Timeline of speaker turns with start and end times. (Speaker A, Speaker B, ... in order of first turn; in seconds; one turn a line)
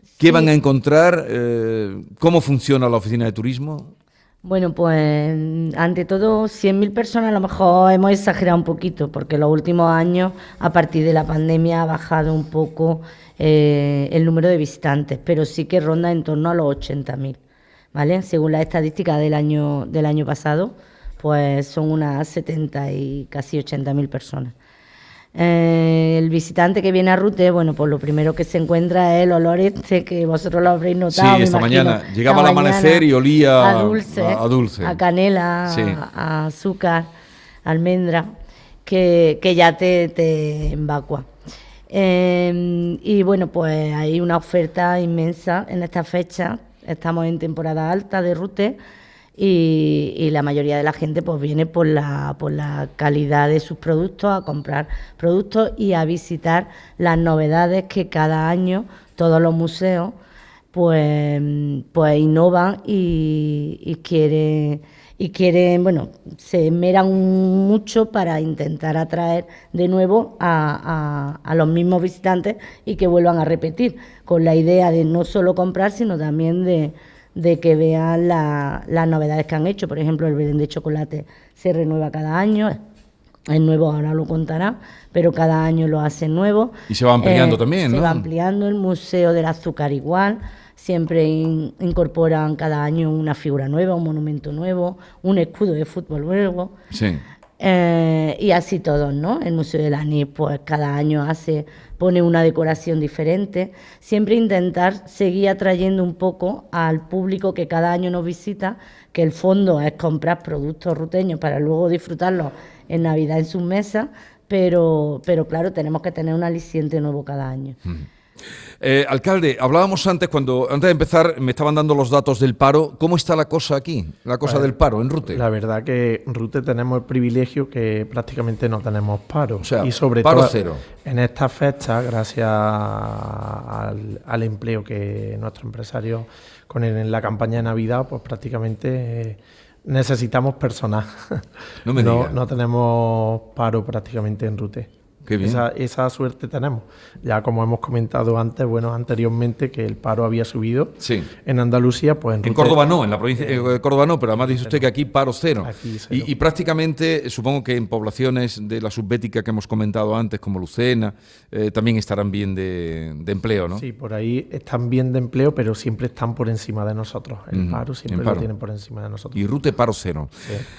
Speaker A: 0.2-0.5
Speaker B: 0.2-3.9
Speaker A: 4.4-17.4
Speaker A: 17.9-24.5
Speaker A: 25.4-33.1
Speaker B: 31.1-35.0
Speaker A: 33.6-37.1
Speaker B: 35.7-36.0
Speaker A: 37.7-38.3
Speaker A: 38.9-41.3
Speaker A: 41.9-48.8
Speaker A: 49.4-60.2
Speaker A: 60.7-82.8
Speaker A: 83.5-96.8
Speaker B: 86.9-88.3
Speaker B: 96.9-97.2
Speaker A: 97.6-117.8
Speaker B: 118.8-125.4
Speaker C: 124.4-124.7
Speaker C: 125.3-144.9
Speaker B: 129.6-130.8
Speaker B: 141.8-142.4
Speaker B: 145.2-145.6
Speaker C: 145.4-152.8
Speaker B: 151.0-151.3
Speaker B: 152.4-163.8
Speaker C: 153.4-153.8
Speaker C: 154.4-154.9
Speaker C: 155.6-156.3
Speaker C: 163.7-169.4
Speaker B: 167.5-168.5
Speaker B: 169.3-170.3